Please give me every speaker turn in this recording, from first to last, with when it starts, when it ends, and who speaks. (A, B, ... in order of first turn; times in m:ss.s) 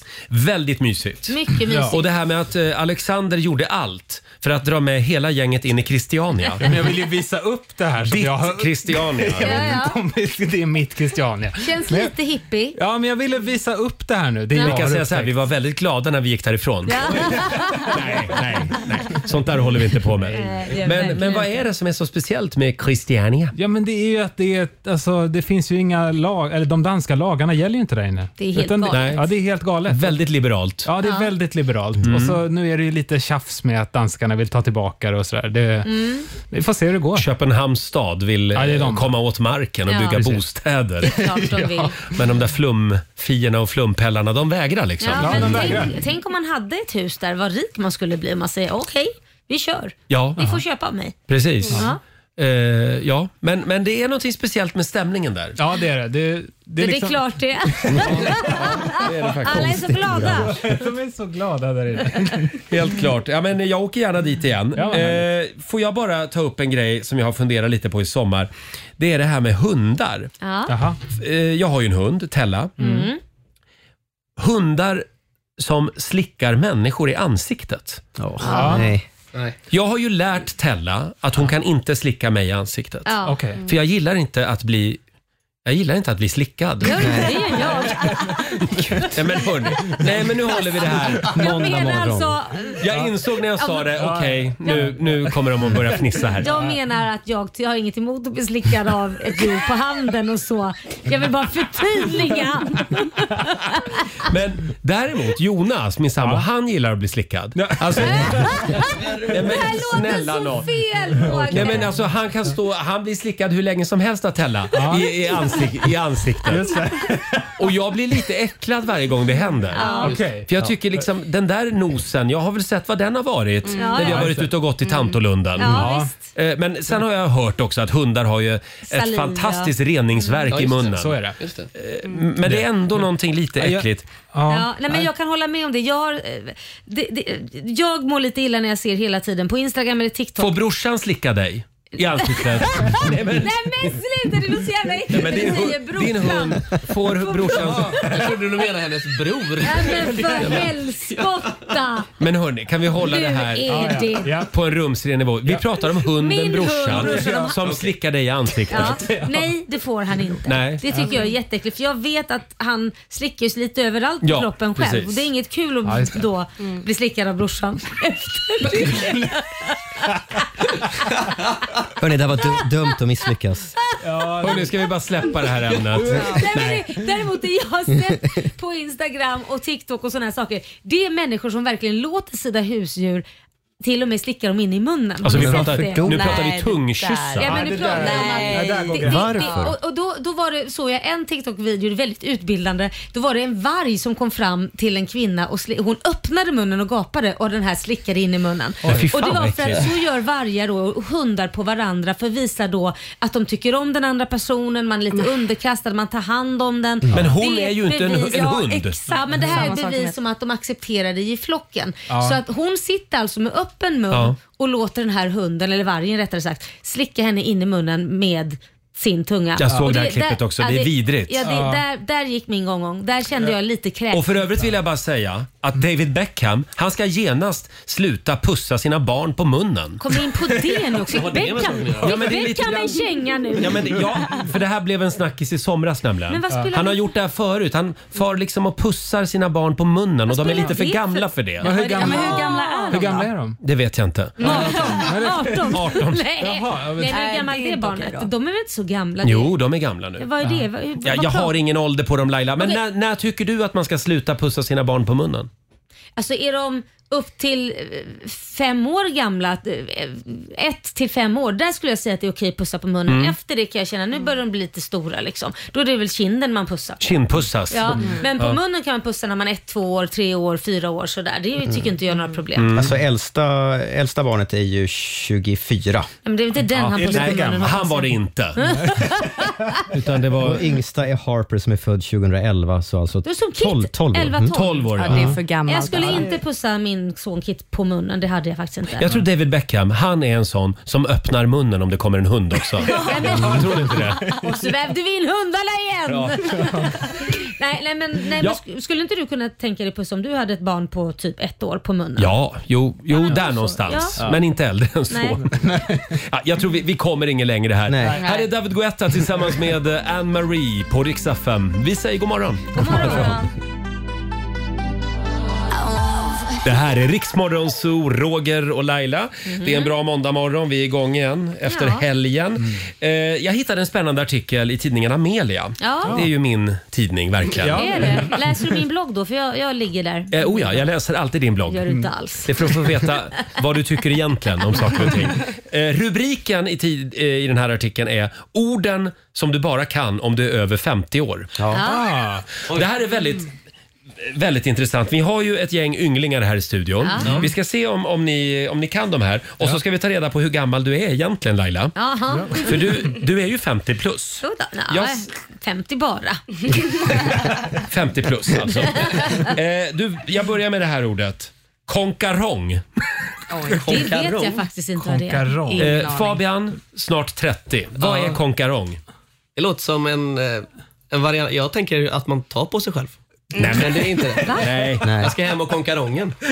0:00.3-0:06.7 A
0:01.3-0:02.0 B
0:01.6-0:02.0 C
0:06.6-0:12.1 C
0:08.1-0:09.6 A
0:09.4-0:09.9 B
0:11.6-0:12.8 B
0:12.7-0:15.3 C
0:14.5-0:14.8 B
0:14.6-0:23.5 A
0:16.9-0:17.9 B
0:17.2-0:18.7 C
0:20.2-0:21.2 C
0:20.3-0:21.5 B
0:23.5-0:30.2 C
0:28.4-0:29.3 B
0:28.9-0:29.2 A
0:29.9-0:30.9 A
0:30.8-0:37.3 C
0:31.0-0:31.3 B
0:32.0-0:32.4 A
0:35.8-0:36.3 B
0:37.2-0:45.8 A
0:38.5-0:39.1 C
0:39.9-0:40.2 B
0:40.2-0:40.4 C
0:41.0-0:42.1 B
0:41.0-0:42.2 C
0:45.0-0:51.1 B
0:45.0-0:46.0 C
0:50.1-0:50.5 A
0:51.3-0:55.6 A
0:51.7-0:52.0 B
0:55.6-1:02.6 C
0:56.8-1:00.6 B
0:58.1-0:59.8 A
0:59.5-1:00.5 D
1:02.7-1:10.3 A
1:04.7-1:05.3 C
1:10.4-1:10.7 B
1:10.7-1:11.0 C
1:11.1-1:12.8 A
1:12.8-1:13.1 C
1:12.8-1:13.2 B
1:14.4-1:15.0 A
1:15.6-1:18.0 A
1:18.2-1:19.0 D
1:18.4-1:18.9 B
1:18.4-1:18.9 C
1:19.7-1:23.1 A
1:23.0-1:23.4 B
1:23.2-1:23.7 C
1:23.6-1:25.0 A
1:25.6-1:27.2 A
1:26.8-1:29.1 B
1:27.0-1:27.3 D
1:27.6-1:29.1 C
1:28.9-1:31.3 A
1:29.8-1:32.8 B
1:31.3-1:32.4 D
1:32.8-1:36.5 A
1:33.6-1:33.9 B
1:33.9-1:35.8 C
1:34.6-1:34.9 B
1:36.4-1:44.1 B
1:36.4-1:36.8 C
1:44.2-1:50.7 A
1:46.2-1:46.5 C
1:47.5-1:49.4 C
1:48.0-1:51.9 B
1:51.1-1:52.0 C
1:51.5-1:56.8 A
1:54.7-1:55.7 C
1:56.4-1:57.6 C
1:57.6-2:11.2 A
1:59.7-2:00.2 B
1:59.8-2:00.1 E
1:59.8-2:00.7 C
2:03.6-2:04.3 E
2:03.7-2:04.3 B
2:03.9-2:04.5 C
2:04.8-2:05.2 E
2:05.6-2:06.1 B
2:05.6-2:06.1 C
2:08.9-2:09.7 B
2:10.5-2:11.7 F
2:10.9-2:11.4 C
2:11.7-2:14.1 A
2:12.0-2:12.3 E
2:12.4-2:13.0 C
2:13.6-2:15.1 C
2:14.5-2:20.5 B
2:20.4-2:24.0 A
2:22.1-2:28.4 B
2:25.1-2:28.0 A
2:27.6-2:28.1 C
2:27.8-2:31.8 F
2:29.6-2:32.1 B
2:32.2-2:39.1 A
2:33.0-2:34.4 B
2:33.7-2:34.5 C
2:36.1-2:37.6 B
2:36.9-2:37.6 C
2:37.2-2:37.9 F
2:38.7-2:50.1 B
2:38.8-2:39.5 C
2:40.4-2:40.8 A
2:44.2-2:45.3 A
2:45.8-2:46.2 C
2:48.7-2:49.3 C
2:52.0-2:53.7 D
2:52.4-2:52.6 B
2:54.0-2:54.8 C
2:54.4-2:56.8 A
2:55.9-2:56.8 C
2:56.2-3:03.2 B
3:03.8-3:06.2 B
3:05.2-3:07.5 A
3:05.3-3:06.4 D
3:06.0-3:09.4 E
3:07.4-3:44.4 B
3:07.4-3:09.4 C
3:09.0-3:09.8 D
3:18.8-3:19.9 A
3:18.8-3:19.1 C
3:27.0-3:27.3 D
3:27.1-3:29.0 A
3:29.2-3:29.7 C
3:29.3-3:30.2 E
3:32.1-3:32.4 C
3:34.1-3:34.4 A
3:39.6-3:41.5 A
3:41.4-3:41.8 C
3:44.1-3:50.0 A
3:50.0-3:53.9 B
3:51.1-3:52.7 F
3:52.0-3:53.0 A
3:53.6-4:01.7 A
3:56.3-3:57.0 B
4:00.3-4:03.2 B
4:01.6-4:03.6 C
4:01.8-4:03.3 E
4:03.6-4:04.7 A
4:04.4-4:05.0 E
4:04.4-4:09.5 B
4:04.4-4:07.2 C
4:05.7-4:06.2 A
4:07.0-4:08.3 E
4:09.2-4:10.3 A
4:10.2-4:11.5 B
4:10.4-4:10.7 C
4:11.0-4:15.5 A
4:16.2-4:27.1 B
4:23.1-4:23.4 A
4:27.0-4:28.6 A
4:27.7-4:32.8 B
4:28.0-4:28.3 E
4:32.6-4:32.9 A
4:32.7-4:36.1 D
4:36.2-4:39.8 B
4:36.7-4:37.9 C
4:37.1-4:38.6 A
4:39.9-4:40.6 A
4:40.4-4:45.4 D
4:43.2-4:44.9 B
4:44.5-4:45.4 A
4:44.9-4:46.4 E
4:45.6-4:49.1 B
4:49.0-4:54.3 A
4:52.8-5:02.3 B
4:53.5-4:54.4 C
4:56.1-4:56.6 A
5:02.2-5:13.3 A
5:03.1-5:04.2 B
5:05.1-5:05.4 B
5:05.4-5:06.2 C
5:07.9-5:08.2 D
5:08.1-5:08.5 E
5:12.7-5:13.5 B
5:12.8-5:13.4 C
5:16.6-5:28.3 A
5:19.5-5:19.9 B
5:21.6-5:22.0 B
5:25.8-5:26.2 B
5:27.5-5:28.4 C
5:27.7-5:30.6 B
5:30.3-5:31.8 A
5:31.7-5:32.8 B
5:32.4-5:41.6 A
5:41.7-5:42.2 B
5:41.8-5:42.5 C
5:42.7-5:43.5 A
5:44.2-5:51.9 A
5:47.0-5:47.3 B
5:47.2-5:47.5 F
5:52.0-5:53.0 B
5:52.3-5:52.7 C
5:52.5-5:55.3 A
5:54.4-5:57.0 B
5:57.8-6:02.9 A
5:59.0-5:59.5 B
6:03.5-6:03.9 E
6:03.7-6:04.6 F
6:03.8-6:05.9 B
6:05.0-6:05.9 C
6:05.7-6:06.4 E
6:05.8-6:09.0 A
6:08.0-6:08.4 F
6:09.6-6:16.4 F
6:13.6-6:13.9 E
6:13.6-6:14.0 A
6:14.4-6:14.7 B
6:14.5-6:15.3 A
6:15.0-6:15.3 D